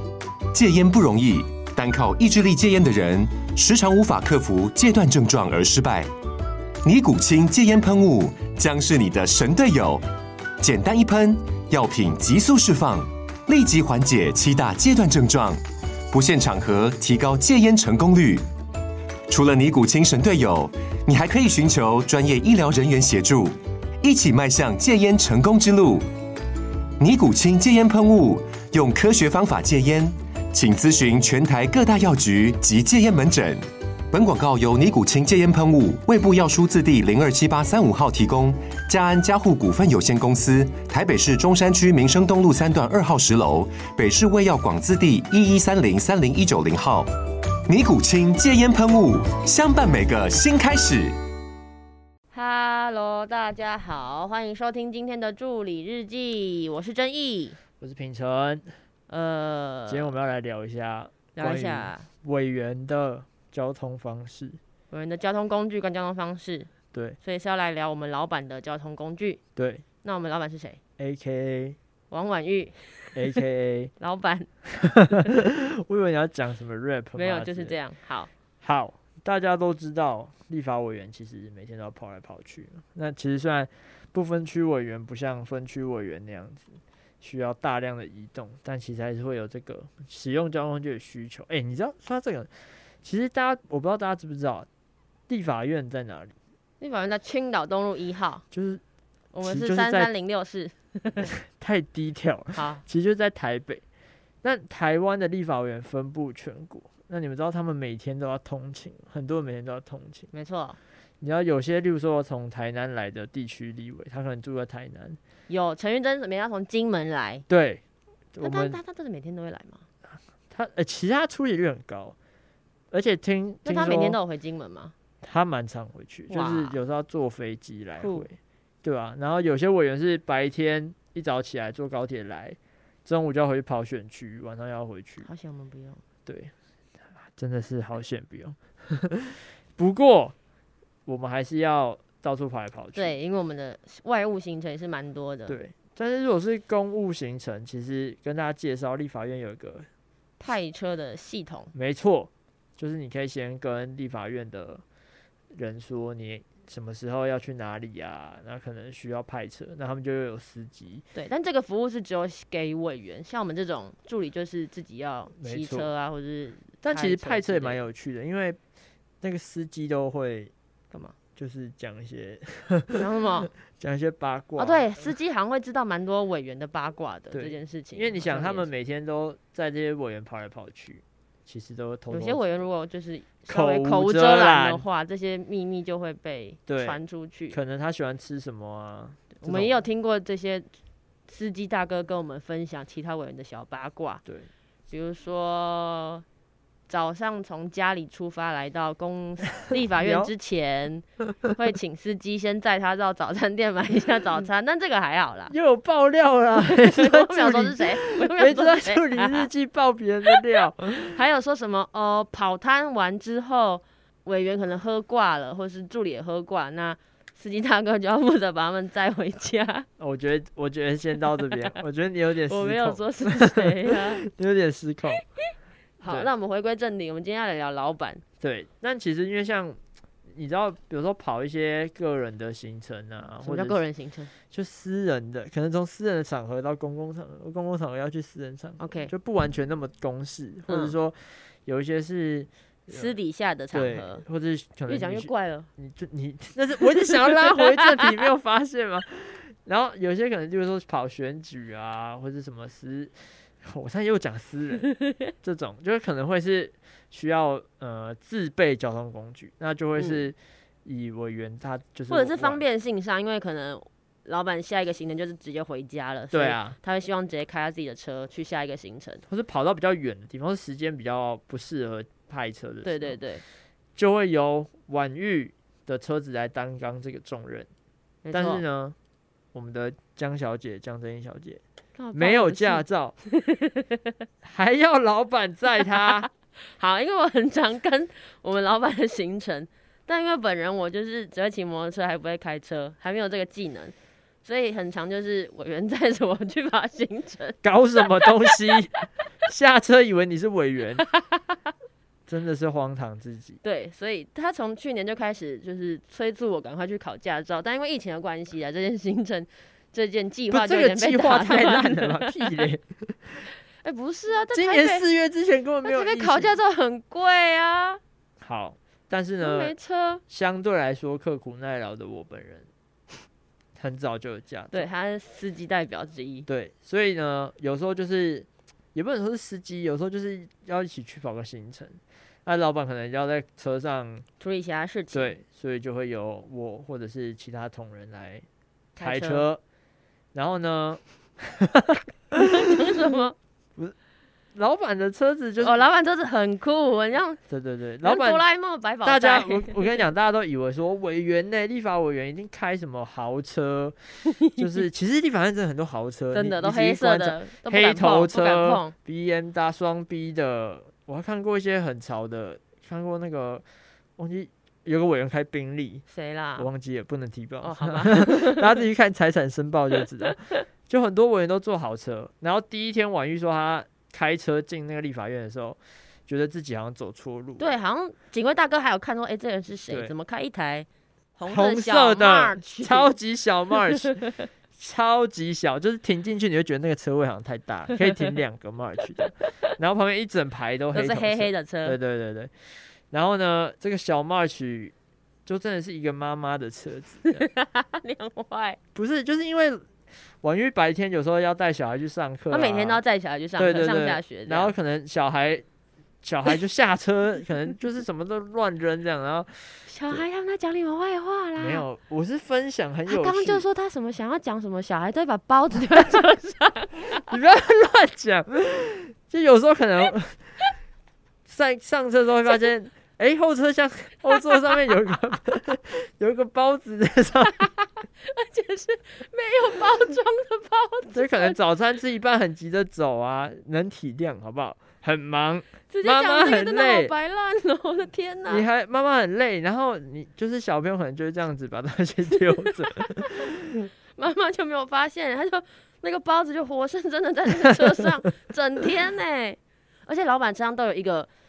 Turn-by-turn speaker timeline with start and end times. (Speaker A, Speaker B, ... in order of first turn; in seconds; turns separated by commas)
Speaker A: 0.5-6.1, Speaker A: 6.8-10.0, Speaker A: 10.6-15.6, Speaker A: 16.1-18.4, Speaker A: 19.3-26.1, Speaker A: 27.0-33.6, Speaker A: 34.1-47.1, Speaker A: 47.7-51.1, Speaker B: 52.3-57.6, Speaker C: 57.8-58.8, Speaker B: 59.1-60.1, Speaker C: 59.9-64.6, Speaker B: 61.3-62.1, Speaker B: 64.9-66.7, Speaker C: 66.9-67.2, Speaker B: 67.2-69.4, Speaker C: 69.5-69.8, Speaker B: 70.0-70.8, Speaker C: 71.0-71.8, Speaker B: 72.1-73.2, Speaker C: 73.1-73.9, Speaker B: 74.0-74.5, Speaker C: 74.7-77.8, Speaker B: 77.2-78.3, Speaker C: 78.6-94.7, Speaker C: 95.3-96.3, Speaker B: 96.8-98.4, Speaker C: 98.5-98.8, Speaker B: 99.3-101.3, Speaker C: 99.4-100.1, Speaker C: 101.2-103.8, Speaker B: 102.5-102.8, Speaker C: 104.4-110.3, Speaker B: 110.3-110.8, Speaker C: 111.2-115.2, Speaker B: 115.5-117.4, Speaker C: 117.5-117.8, Speaker C: 118.3-118.8, Speaker B: 118.4-119.8, Speaker C: 120.5-122.1, Speaker C: 122.9-124.2, Speaker B: 123.6-124.9, Speaker C: 125.2-135.3, Speaker B: 126.3-126.8, Speaker B: 128.0-128.2, Speaker B: 135.2-136.0, Speaker C: 136.2-136.5, Speaker C: 137.2-140.3, Speaker C: 141.1-143.2, Speaker B: 142.9-145.6, Speaker C: 145.5-149.9, Speaker B: 150.4-151.7, Speaker C: 151.7-154.8, Speaker C: 155.5-161.1, Speaker B: 161.1-167.8, Speaker C: 165.3-165.9, Speaker C: 166.8-168.6, Speaker C: 169.2-170.5, Speaker C: 171.3-174.9, Speaker B: 172.9-173.5, Speaker B: 174.6-178.7, Speaker C: 177.3-182.4, Speaker B: 182.1-187.6, Speaker C: 183.5-184.8, Speaker C: 186.7-187.0, Speaker C: 187.5-189.8, Speaker B: 189.4-190.7, Speaker B: 191.3-194.2, Speaker B: 194.9-196.2, Speaker B: 196.9-205.5, Speaker C: 200.0-200.3, Speaker C: 205.5-211.2, Speaker B: 206.6-209.5, Speaker B: 210.3-219.8, Speaker C: 220.0-225.2, Speaker B: 222.5-224.2, Speaker C: 226.0-226.3, Speaker B: 226.0-228.2, Speaker C: 228.4-229.8, Speaker C: 230.3-233.8, Speaker B: 233.4-234.3, Speaker C: 234.5-243.2, Speaker B: 238.8-239.1, Speaker B: 240.7-240.9, Speaker B: 242.9-244.2, Speaker C: 243.7-262.6, Speaker B: 244.9-245.7, Speaker B: 247.6-248.1, Speaker B: 260.0-260.3, Speaker B: 262.1-269.2, Speaker C: 266.3-266.8, Speaker C: 269.2-273.2, Speaker B: 272.8-273.4, Speaker C: 273.9-277.7, Speaker B: 278.2-278.6, Speaker C: 278.3-278.9, Speaker C: 279.5-281.6, Speaker B: 281.9-284.0, Speaker C: 282.1-283.1, Speaker C: 284.4-286.3, Speaker B: 286.1-298.5, Speaker C: 297.6-301.0, Speaker B: 301.1-301.4, Speaker C: 302.3-303.6, Speaker B: 303.6-312.6, Speaker C: 310.5-313.5, Speaker B: 313.8-315.0, Speaker C: 314.5-316.6, Speaker B: 315.8-318.0, Speaker C: 318.4-319.7, Speaker B: 319.4-320.2, Speaker C: 320.3-322.7, Speaker C: 323.8-324.9, Speaker B: 324.7-326.5, Speaker C: 326.5-334.2, Speaker B: 334.4-335.3, Speaker C: 335.1-338.4, Speaker C: 338.9-339.6, Speaker B: 339.0-339.5, Speaker C: 340.3-342.7, Speaker B: 342.3-343.3, Speaker C: 344.5-345.8, Speaker B: 345.6-347.4, Speaker C: 347.5-348.4, Speaker B: 348.0-350.1, Speaker C: 349.0-363.6, Speaker B: 356.3-358.9, Speaker C: 364.2-366.0, Speaker B: 366.1-366.7, Speaker C: 366.6-377.7, Speaker B: 367.6-368.7, Speaker B: 377.6-383.1, Speaker C: 379.9-380.1, Speaker C: 381.4-394.9, Speaker B: 390.9-392.0, Speaker C: 395.4-397.5, Speaker B: 397.3-398.8, Speaker C: 398.9-399.8, Speaker C: 400.4-403.0, Speaker B: 402.5-404.7, Speaker C: 403.6-405.6, Speaker C: 406.2-410.2, Speaker B: 409.9-411.8, Speaker C: 411.6-413.6, Speaker B: 413.1-417.2, Speaker C: 417.0-420.5, Speaker C: 421.4-427.8, Speaker B: 428.2-431.6, Speaker C: 431.1-437.1, Speaker B: 435.9-438.6, Speaker C: 438.4-443.7, Speaker B: 442.6-443.4, Speaker B: 444.1-451.3